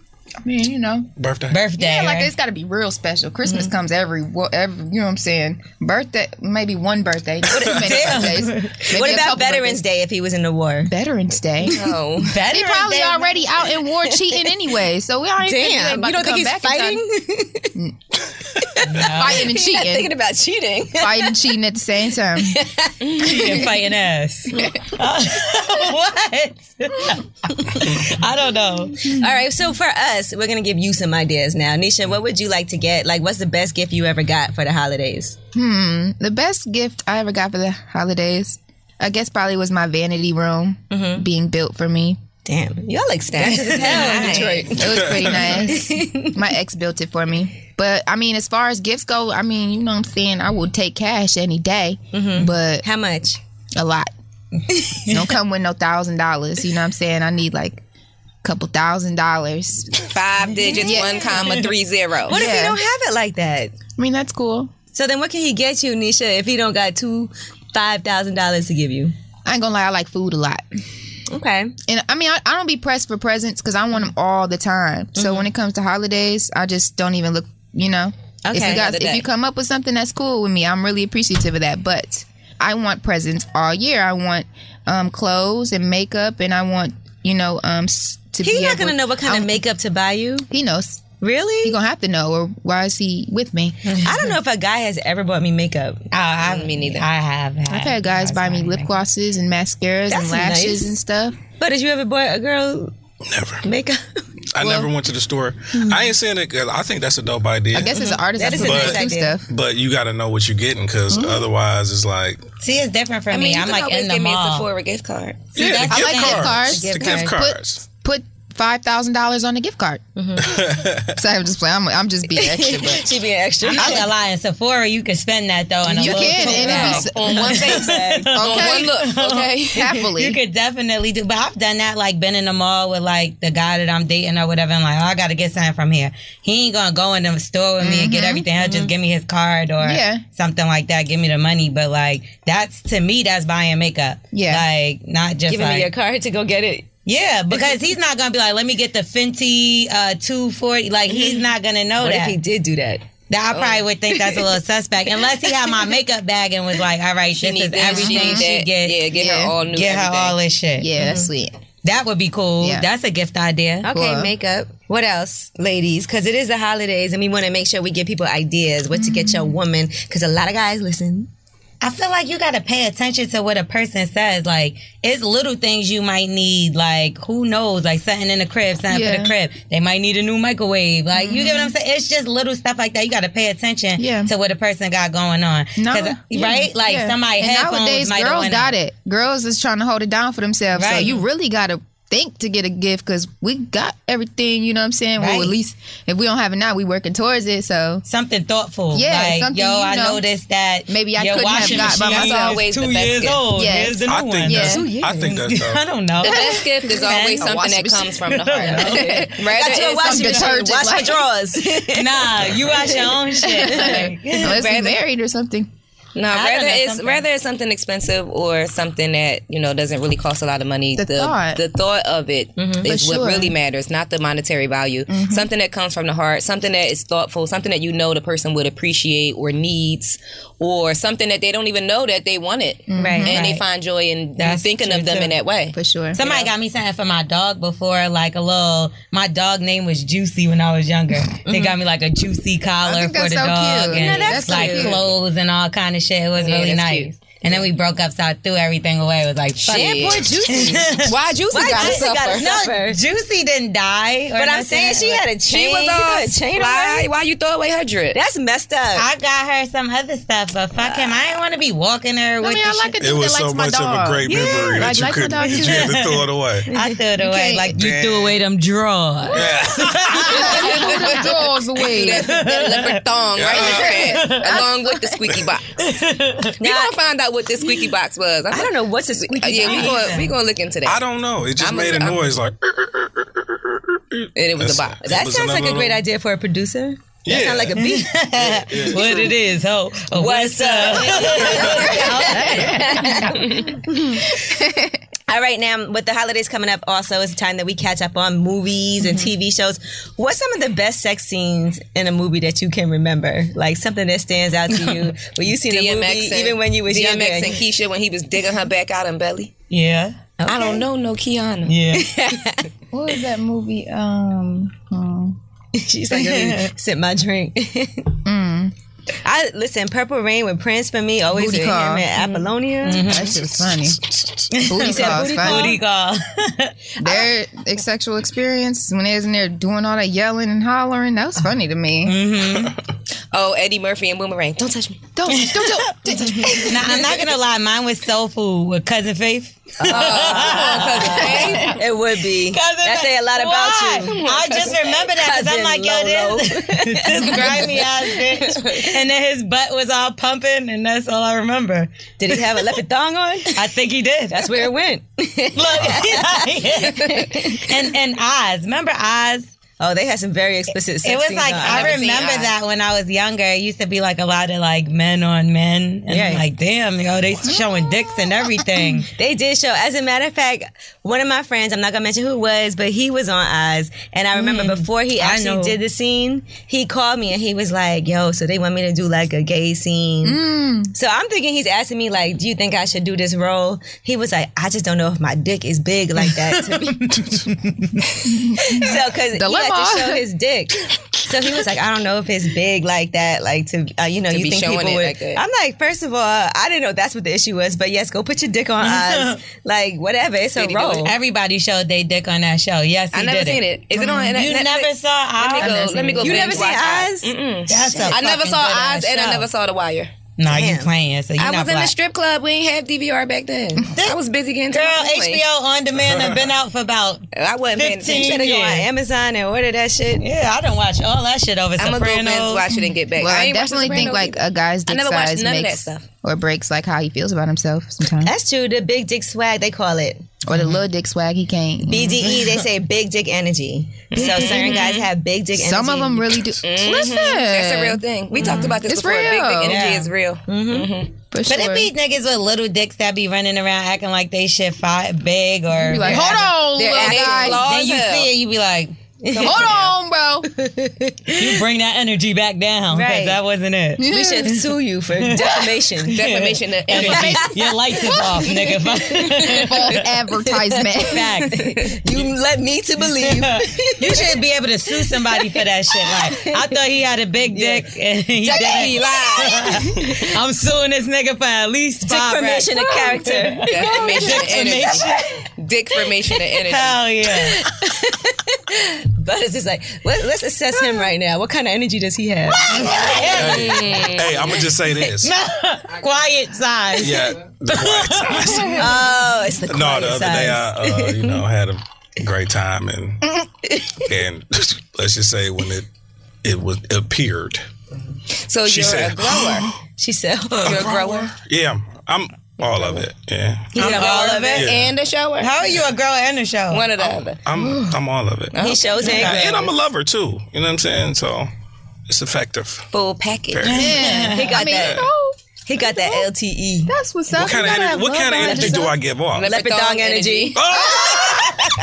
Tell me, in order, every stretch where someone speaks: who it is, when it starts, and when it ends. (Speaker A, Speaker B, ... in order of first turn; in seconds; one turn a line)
Speaker A: 0.4-1.1
Speaker B: 1.2-1.6
Speaker C: 1.5-2.3
Speaker A: 1.8-9.8
Speaker D: 3.5-3.7
Speaker D: 7.6-7.9
Speaker C: 7.7-9.2
Speaker D: 8.9-10.9
Speaker A: 10.8-17.0
Speaker E: 11.7-12.4
Speaker C: 12.2-13.4
Speaker D: 14.0-14.5
Speaker D: 15.4-17.8
Speaker D: 18.5-21.4
Speaker C: 18.8-19.4
Speaker A: 19.0-20.1
Speaker A: 21.0-22.6
Speaker D: 22.4-23.7
Speaker E: 23.0-23.5
Speaker C: 23.2-29.0
Speaker D: 27.6-27.9
Speaker D: 29.1-35.4
Speaker A: 35.5-42.2
Speaker D: 40.9-41.2
Speaker D: 42.4-46.4
Speaker E: 43.3-44.8
Speaker A: 44.4-52.8
Speaker B: 44.8-45.6
Speaker D: 52.1-53.4
Speaker A: 53.8-54.1
Speaker D: 54.7-55.1
Speaker A: 55.1-57.8
Speaker A: 58.4-60.1
Speaker E: 60.1-62.4
Speaker C: 60.5-61.7
Speaker A: 60.8-61.4
Speaker D: 62.3-63.7
Speaker A: 62.3-62.8
Speaker A: 64.0-64.7
Speaker D: 64.9-69.1
Speaker A: 69.4-70.6
Speaker D: 71.3-71.7
Speaker A: 71.9-89.6
Speaker D: 75.1-75.5
Speaker D: 78.4-78.9
Speaker E: 78.6-79.2
Speaker D: 88.4-90.5
Speaker A: 90.5-91.0
Speaker D: 91.2-91.8
Speaker A: 91.6-93.8
Speaker C: 93.9-94.3
Speaker D: 94.0-96.1
Speaker C: 96.1-98.9
Speaker E: 96.4-97.1
Speaker A: 97.7-101.3
Speaker D: 100.1-100.9
Speaker D: 101.6-102.9
Speaker B: 103.3-103.7
Speaker D: 103.6-104.2
Speaker B: 104.5-107.9
Speaker A: 104.6-104.9
Speaker D: 105.8-106.0
Speaker A: 107.7-109.5
Speaker D: 108.3-109.4
Speaker B: 108.6-112.4
Speaker A: 111.1-111.5
Speaker C: 112.6-114.7
Speaker E: 113.3-115.5
Speaker C: 115.5-116.8
Speaker B: 115.6-117.8
Speaker A: 115.8-120.0
Speaker D: 116.7-117.3
Speaker D: 120.2-120.5
Speaker B: 120.4-121.2
Speaker A: 121.2-123.1
Speaker D: 122.3-124.1
Speaker C: 123.7-145.9
Speaker A: 123.8-124.0
Speaker E: 125.9-130.0
Speaker A: 125.9-130.4
Speaker A: 137.8-138.5
Speaker D: 138.6-138.9
Speaker A: 139.8-140.2
Speaker A: 144.3-144.6
Speaker D: 145.5-146.9
Speaker C: 147.1-152.4
Speaker D: 152.0-153.0
Speaker C: 153.3-159.0
Speaker E: 153.5-154.2
Speaker E: 157.3-160.4
Speaker A: 157.8-158.5
Speaker A: 159.1-159.6
Speaker C: 159.7-160.9
Speaker A: 160.8-161.5
Speaker D: 161.0-161.3
Speaker C: 161.8-163.8
Speaker A: 162.6-162.9
Speaker D: 163.8-171.3
Speaker A: 163.9-164.3
Speaker A: 168.9-169.6
Speaker C: 171.8-188.8
Speaker A: 178.9-179.3
Speaker A: 181.1-181.7
Speaker A: 184.0-184.3
Speaker A: 185.8-198.0
Speaker C: 190.8-191.2
Speaker C: 195.2-195.5
Speaker C: 198.1-207.6
Speaker A: 198.9-200.2
Speaker A: 200.9-202.6
Speaker E: 201.6-203.4
Speaker A: 203.5-204.9
Speaker B: 204.1-205.8
Speaker D: 204.7-205.4
Speaker E: 206.2-210.5
Speaker A: 206.2-211.2
Speaker C: 208.2-209.3
Speaker D: 209.2-213.9
Speaker C: 211.9-214.6
Speaker A: 213.4-215.7
Speaker E: 214.3-215.0
Speaker E: 216.1-236.5
Speaker C: 216.3-217.2
Speaker A: 221.0-221.6
Speaker D: 222.6-222.9
Speaker A: 222.8-223.5
Speaker A: 225.1-225.5
Speaker A: 232.9-233.3
Speaker D: 233.0-233.4
Speaker C: 233.3-233.6
Speaker C: 234.4-235.4
Speaker A: 235.7-236.2
Speaker C: 236.1-255.3
Speaker D: 241.4-241.8
Speaker A: 242.8-245.1
Speaker D: 243.9-245.0
Speaker E: 246.4-247.7
Speaker E: 249.6-252.4
Speaker D: 249.8-253.0
Speaker D: 254.3-257.1
Speaker E: 255.4-258.2
Speaker D: 258.1-259.1
Speaker C: 259.0-263.0
Speaker D: 260.8-261.1
Speaker A: 262.4-266.1
Speaker B: 263.0-266.7
Speaker C: 265.5-273.0
Speaker D: 266.7-267.0
Speaker A: 267.2-267.7
Speaker B: 267.7-268.4
Speaker B: 269.3-270.4
Speaker A: 270.2-272.4
Speaker E: 270.3-275.8
Speaker B: 273.4-274.1
Speaker A: 273.5-275.1
Speaker C: 273.7-274.7
Speaker C: 275.8-276.5
Speaker D: 276.6-276.9
Speaker E: 276.6-281.0
Speaker D: 278.5-280.2
Speaker C: 279.5-280.3
Speaker B: 280.9-286.0
Speaker E: 281.6-282.2
Speaker E: 284.4-285.1
Speaker D: 285.0-288.2
Speaker B: 287.2-289.3
Speaker C: 287.8-293.1
Speaker E: 290.1-293.8
Speaker D: 290.8-294.3
Speaker A: 294.4-295.0
Speaker D: 295.3-307.6
Speaker E: 305.6-309.5
Speaker C: 309.7-310.1
Speaker D: 310.4-310.9
Speaker E: 310.5-311.8
Speaker C: 311.6-312.1
Speaker D: 311.9-312.7
Speaker A: 312.9-315.4
Speaker D: 315.7-318.1
Speaker C: 316.2-316.7
Speaker A: 318.2-318.7
Speaker D: 319.2-323.0
Speaker A: 321.3-322.1
Speaker C: 322.8-323.4
Speaker A: 323.0-324.0
Speaker B: 323.2-324.5
Speaker C: 324.5-326.8
Speaker A: 324.7-325.8
Speaker D: 324.8-325.8
Speaker A: 327.0-332.1
Speaker C: 332.0-332.8
Speaker E: 333.3-335.0
Speaker A: 335.1-337.2
Speaker C: 335.3-341.8
Speaker D: 339.8-344.2
Speaker E: 339.9-341.8
Speaker C: 342.5-351.9
Speaker E: 344.1-344.9
Speaker D: 345.1-347.9
Speaker E: 347.3-348.9
Speaker D: 352.2-353.6
Speaker C: 353.5-354.7
Speaker D: 354.3-357.7
Speaker C: 355.5-359.5
Speaker D: 359.8-362.5
Speaker C: 361.0-369.1
Speaker D: 366.1-366.4
Speaker D: 369.1-380.4
Speaker C: 374.4-375.8
Speaker A: 380.2-380.9
Speaker D: 380.9-387.2
Speaker C: 386.2-388.0
Speaker A: 388.3-390.2
Speaker D: 388.6-401.1
Speaker E: 394.3-395.4
Speaker C: 398.8-399.4
Speaker E: 400.5-401.1
Speaker C: 401.0-406.8
Speaker E: 403.1-410.1
Speaker A: 404.0-404.4
Speaker D: 406.2-408.2
Speaker C: 407.7-409.5
Speaker C: 410.4-411.9
Speaker D: 410.5-410.9
Speaker E: 411.4-415.4
Speaker C: 414.7-418.9
Speaker B: 416.0-416.4
Speaker E: 417.4-418.4
Speaker D: 418.0-420.2
Speaker C: 420.2-422.6
Speaker E: 421.8-426.1
Speaker A: 422.7-428.3
Speaker D: 428.2-430.2
Speaker A: 430.4-432.2
Speaker C: 430.5-430.8
Speaker D: 431.9-436.4
Speaker C: 432.2-432.5
Speaker E: 434.1-435.0
Speaker C: 434.3-434.9
Speaker A: 435.5-439.8
Speaker E: 436.6-441.1
Speaker D: 438.3-438.8
Speaker C: 439.6-440.1
Speaker D: 440.5-440.9
Speaker A: 441.3-441.9
Speaker C: 441.5-446.3
Speaker A: 445.8-447.6
Speaker D: 446.0-447.5
Speaker E: 446.1-448.3
Speaker C: 447.4-449.6
Speaker D: 449.2-449.7
Speaker E: 449.4-449.8
Speaker A: 449.4-450.5
Speaker D: 450.5-451.6
Speaker C: 451.4-454.5
Speaker D: 452.9-453.4
Speaker A: 454.0-454.6
Speaker D: 454.0-456.2
Speaker C: 455.2-460.1
Speaker E: 456.1-457.7
Speaker D: 456.9-459.7
Speaker A: 459.4-461.4
Speaker D: 460.5-464.4
Speaker C: 461.0-461.7
Speaker E: 461.5-461.9
Speaker C: 463.2-475.2
Speaker D: 465.0-466.8
Speaker D: 467.5-467.9
Speaker E: 468.4-469.9
Speaker D: 468.5-470.3
Speaker D: 472.0-475.4
Speaker E: 473.7-475.1
Speaker E: 475.6-477.0
Speaker C: 476.6-477.6
Speaker D: 477.3-483.1
Speaker C: 482.6-484.0
Speaker B: 482.7-485.3
Speaker E: 483.2-484.5
Speaker C: 485.1-488.9
Speaker B: 487.0-489.0
Speaker D: 488.8-491.4
Speaker B: 489.7-495.9
Speaker B: 496.4-497.6
Speaker E: 498.4-499.7
Speaker B: 498.6-499.8
Speaker D: 500.0-501.0
Speaker B: 500.6-504.9
Speaker E: 500.6-501.3
Speaker E: 502.6-503.0
Speaker D: 503.7-504.7
Speaker E: 503.8-505.8
Speaker C: 503.8-504.6
Speaker C: 505.4-507.1
Speaker E: 506.7-507.4
Speaker B: 507.4-511.5
Speaker E: 508.5-509.7
Speaker D: 508.5-509.6
Speaker C: 509.0-509.3
Speaker B: 512.1-512.9
Speaker E: 512.9-513.9
Speaker B: 513.5-514.0
Speaker C: 513.6-514.5
Speaker A: 513.7-516.3
Speaker D: 514.3-515.1
Speaker B: 514.6-515.0
Speaker D: 515.6-521.7
Speaker A: 516.9-518.9
Speaker B: 517.3-519.6
Speaker E: 519.3-520.9
Speaker B: 520.5-521.7